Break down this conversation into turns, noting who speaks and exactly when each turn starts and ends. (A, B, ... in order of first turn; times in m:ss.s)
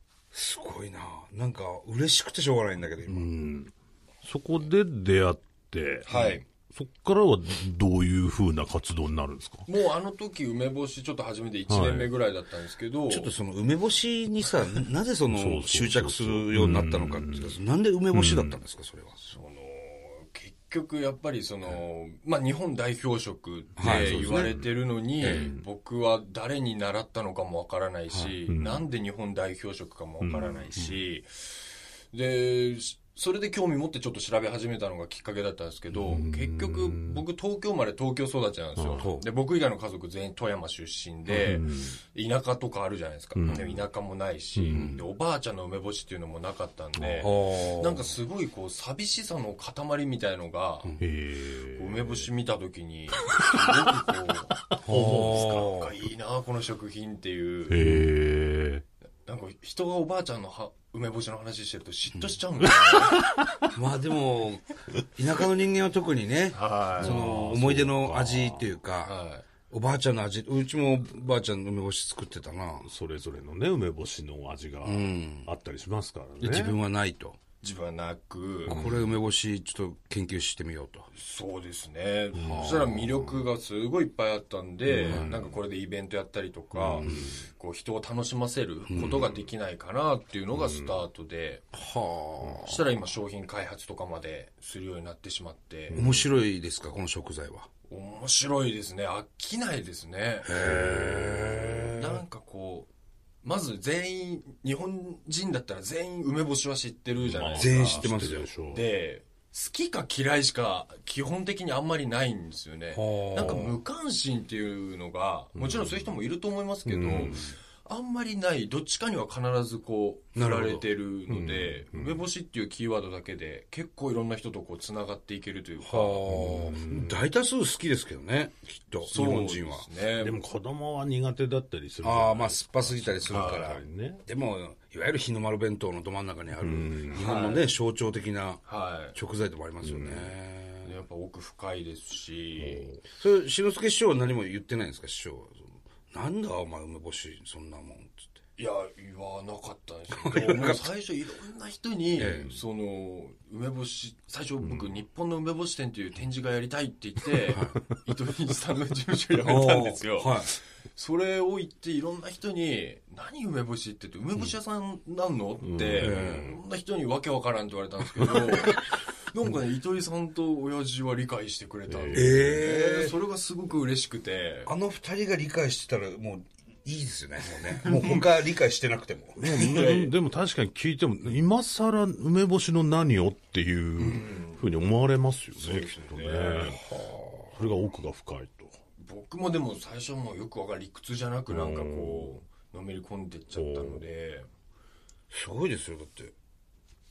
0:00.3-0:03.3 A
0:03.0-0:09.7 B
0:06.0-0:06.4 C
0:09.6-0:13.3 C
0:11.7-0:12.1 B
0:13.1-0:19.2 A
0:15.3-0:17.6 B
0:18.1-0:18.6 B
0:19.2-0:51.0 C
0:23.8-0:24.5 A
0:23.8-0:24.7 B
0:25.2-0:25.6 B
0:25.2-0:25.5 A
0:28.5-0:28.8 B
0:30.2-0:30.7 B
0:35.9-0:37.2 B
0:38.8-0:39.0 B
0:39.0-0:39.2 A
0:41.3-0:42.0 B
0:43.3-0:43.8 B
0:44.6-0:45.0 B
0:44.7-0:45.0 A
0:46.9-0:47.3 B
0:47.2-0:48.2 A
0:51.0-0:52.3 B
0:51.7-0:57.8 C
0:53.3-0:54.0 B
0:54.7-0:55.5 B
0:54.8-0:55.9 A
0:57.7-0:58.8 B
0:57.8-0:58.1 A
0:59.2-1:03.3 C
1:03.1-1:03.6 B
1:03.7-1:09.2 A
1:06.5-1:07.3 C
1:07.0-1:08.8 B
1:09.0-1:09.4 C
1:09.7-1:12.9 A
1:12.8-1:16.8 B
1:14.8-1:15.5 A
1:16.4-1:17.4 A
1:17.6-1:18.8 C
1:18.6-1:21.1 A
1:18.7-1:19.1 B
1:21.1-1:31.7 C
1:22.3-1:23.4 B
1:22.4-1:22.8 A
1:24.9-1:25.6 B
1:26.7-1:27.4 B
1:28.9-1:29.2 A
1:28.9-1:29.4 B
1:30.5-1:31.0 B
1:31.7-1:32.8 A
1:32.4-1:36.0 C
1:35.9-1:36.3 B
1:35.9-1:37.7 A
1:37.9-1:40.6 C
1:40.4-1:42.2 A
1:40.5-1:41.9 B
1:41.9-1:42.9 C
1:43.4-2:06.2 C
1:47.2-1:48.9 B
1:47.5-1:48.5 A
1:52.9-1:53.8 A
1:55.6-1:56.2 B
1:56.8-1:57.5 B
2:00.3-2:00.8 A
2:01.3-2:02.2 B
2:05.8-2:09.9 A
2:06.3-2:07.2 B
2:09.0-2:10.4 C
2:10.2-2:14.2 B
2:12.0-2:18.6 A
2:13.3-2:13.8 C
2:16.6-2:17.2 B
2:17.1-2:17.7 C
2:18.6-2:19.2 C
2:19.1-2:20.9 A
2:19.8-2:20.3 B
2:20.8-2:22.9 C
2:22.6-2:23.0 B
2:23.1-2:28.3 A
2:28.6-2:54.7 C
2:30.2-2:30.8 A
2:32.2-2:32.5 A
2:32.2-2:32.5 B
2:34.6-2:34.9 B
2:39.4-2:40.5 A
2:45.6-2:46.6 B
2:46.0-2:46.5 A
2:48.2-2:48.5 B
2:51.9-2:52.6 B
2:52.1-2:53.1 A
2:54.6-3:00.1 A
2:59.4-3:06.8 B
3:04.0-3:04.6 C
3:05.6-3:06.8 C
3:06.7-3:07.6 A
3:07.6-3:08.7 B
3:09.0-3:14.5 C
3:11.5-3:12.3 B
3:13.5-3:14.0 B
3:15.3-3:16.3 A